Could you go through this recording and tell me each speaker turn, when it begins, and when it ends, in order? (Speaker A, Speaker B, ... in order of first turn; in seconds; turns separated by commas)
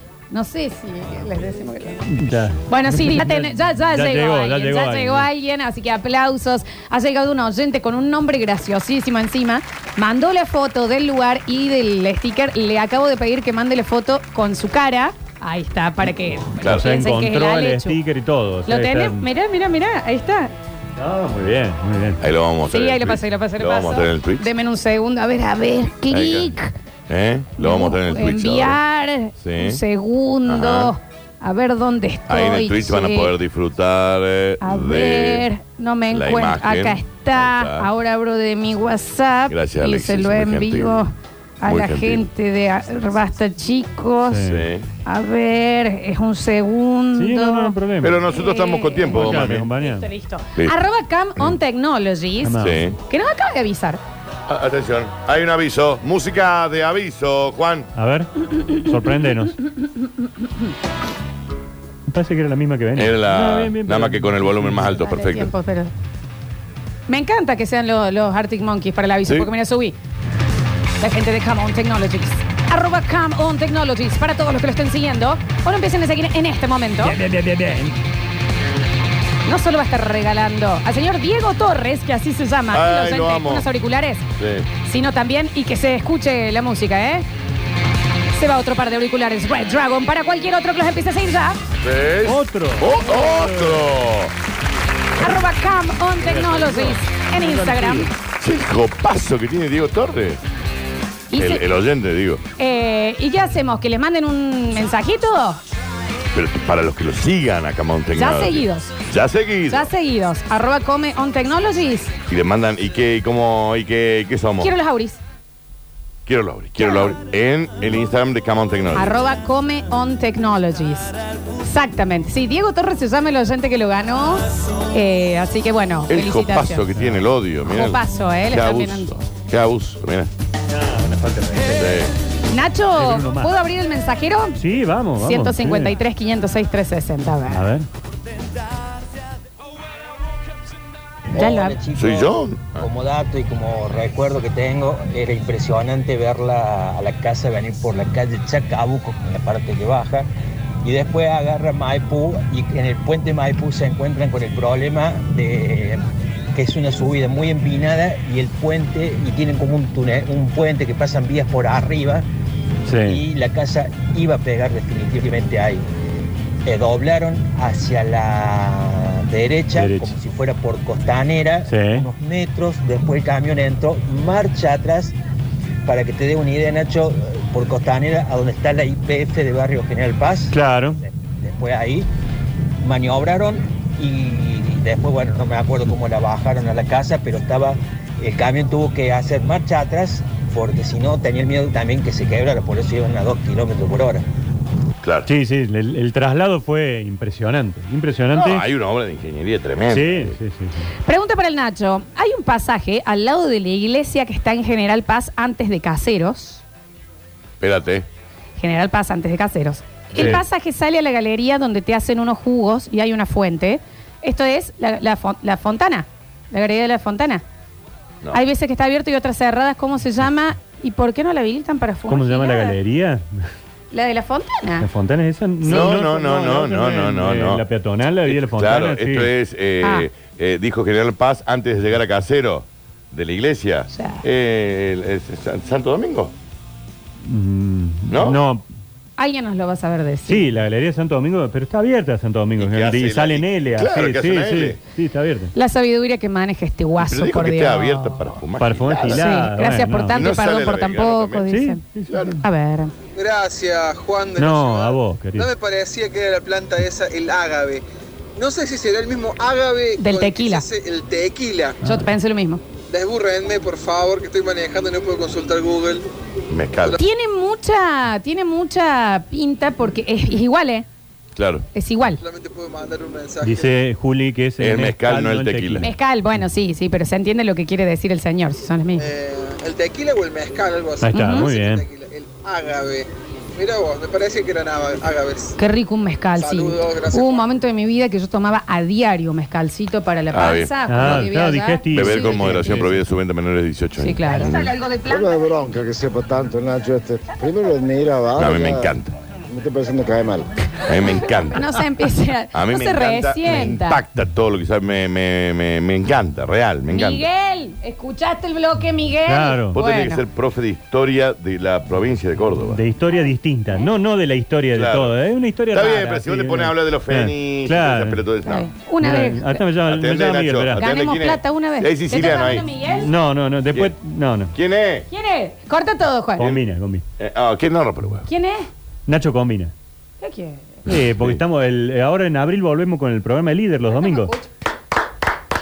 Speaker A: 0.3-2.1, Speaker B: 2.1-5.3, Speaker A: 2.7-18.0, Speaker C: 16.6-16.9, Speaker B: 16.6-19.3, Speaker A: 18.6-20.5, Speaker B: 21.0-22.2, Speaker C: 22.2-24.5, Speaker A: 22.7-26.7, Speaker C: 26.1-26.6, Speaker C: 27.1-28.8, Speaker A: 27.6-33.3, Speaker C: 29.4-29.8, Speaker C: 30.4-30.9, Speaker C: 32.3-35.5, Speaker A: 34.6-44.4, Speaker C: 36.1-37.9, Speaker C: 39.5-41.0, Speaker C: 41.6-42.2, Speaker B: 44.2-44.7, Speaker C: 44.4-44.9, Speaker A: 45.0-47.7, Speaker B: 47.1-48.2, Speaker C: 48.0-49.7, Speaker A: 48.3-54.0, Speaker B: 49.1-50.1, Speaker B: 52.4-52.8, Speaker C: 52.6-53.0, Speaker C: 54.5-57.9, Speaker B: 57.9-59.5, Speaker B: 62.1-64.9, Speaker C: 62.9-65.5, Speaker A: 64.9-65.9, Speaker A: 67.1-70.0, Speaker A: 71.0-77.2, Speaker B: 77.3-77.7, Speaker A: 79.4-84.2, Speaker C: 82.7-83.7, Speaker C: 84.4-84.7, Speaker A: 84.8-87.2, Speaker A: 88.3-91.6, Speaker C: 91.8-94.3, Speaker B: 92.2-93.8, Speaker A: 95.2-98.1, Speaker B: 96.2-98.1, Speaker C: 98.4-100.4, Speaker A: 101.3-101.6, Speaker C: 101.3-102.4, Speaker A: 102.6-105.6, Speaker C: 106.3-109.9, Speaker A: 108.1-108.9, Speaker A: 109.7-112.1, Speaker C: 112.3-114.7, Speaker A: 114.6-115.2, Speaker C: 116.2-119.1, Speaker A: 116.8-117.2, Speaker A: 118.9-126.8, Speaker C: 126.1-130.3, Speaker B: 126.9-127.2, Speaker A: 127.7-129.1, Speaker B: 130.8-132.0, Speaker C: 131.7-132.1, Speaker A: 132.5-134.6, Speaker B: 132.9-133.5, Speaker B: 134.6-135.9, Speaker A: 135.2-137.7, Speaker B: 137.5-137.9, Speaker D: 141.3-150.3, Speaker A: 141.3-141.8, Speaker C: 141.9-142.9, Speaker D: 150.8-156.0, Speaker D: 156.5-162.2, Speaker B: 162.8-163.2, Speaker D: 163.0-165.9, Speaker D: 166.7-175.2, Speaker B: 169.8-170.1, Speaker B: 171.7-172.1, Speaker D: 175.8-182.1, Speaker B: 180.5-181.0, Speaker D: 182.8-194.2, Speaker C: 195.0-195.3, Speaker B: 195.2-198.6, Speaker C: 198.3-200.3, Speaker B: 199.9-200.8, Speaker A: 201.0-206.6, Speaker C: 207.6-208.1, Speaker A: 208.6-217.4, Speaker C: 210.1-210.4, Speaker A: 218.3-222.8, Speaker B: 222.1-223.2, Speaker A: 223.9-224.9, Speaker B: 224.8-229.3, Speaker C: 225.6-227.6, Speaker C: 228.2-236.3, Speaker A: 229.8-230.1, Speaker A: 233.9-234.2, Speaker B: 237.2-238.7, Speaker C: 238.1-238.4, Speaker A: 239.2-240.5, Speaker B: 240.3-245.5, Speaker C: 242.6-244.8, Speaker A: 245.5-248.3, Speaker C: 247.0-249.2, Speaker B: 248.6-250.2, Speaker A: 249.1-251.8, Speaker C: 250.1-251.4, Speaker B: 251.5-252.4, Speaker C: 252.1-252.4, Speaker A: 252.4-252.9, Speaker E: 253.1-257.8, Speaker B: 254.4-255.5, Speaker E: 258.4-261.8, Speaker A: 260.0-260.6, Speaker A: 261.8-262.6, Speaker E: 262.9-266.1, Speaker C: 266.5-267.0, Speaker A: 266.9-270.9, Speaker C: 271.3-271.6, Speaker A: 271.7-272.2, Speaker E: 272.2-273.7, Speaker B: 273.4-275.9, Speaker C: 274.6-275.9, Speaker A: 275.8-279.0, Speaker E: 278.9-285.6, Speaker B: 281.0-281.9, Speaker A: 281.1-281.5, Speaker A: 285.6-292.9, Speaker E: 286.4-287.4, Speaker C: 290.3-291.3, Speaker B: 290.9-293.0, Speaker C: 291.9-294.2, Speaker A: 294.0-295.6, Speaker F: 294.4-298.9, Speaker C: 298.4-299.1, Speaker F: 299.5-300.4, Speaker C: 300.9-301.7, Speaker A: 300.9-304.0, Speaker C: 302.5-307.3, Speaker A: 306.9-310.2, Speaker B: 309.3-309.8, Speaker C: 309.7-312.8, Speaker B: 312.7-318.2, Speaker C: 314.7-315.1, Speaker C: 315.7-318.7, Speaker A: 318.4-319.6, Speaker B: 319.0-320.8, Speaker C: 319.9-322.6, Speaker A: 320.8-323.1, Speaker B: 322.9-324.5, Speaker C: 324.5-325.1, Speaker A: 325.1-326.4, Speaker B: 326.4-327.0, Speaker C: 327.2-328.3, Speaker A: 328.2-328.7, Speaker B: 329.1-329.7, Speaker A: 330.2-330.8, Speaker B: 330.9-334.3, Speaker C: 330.9-331.4, Speaker A: 333.9-334.5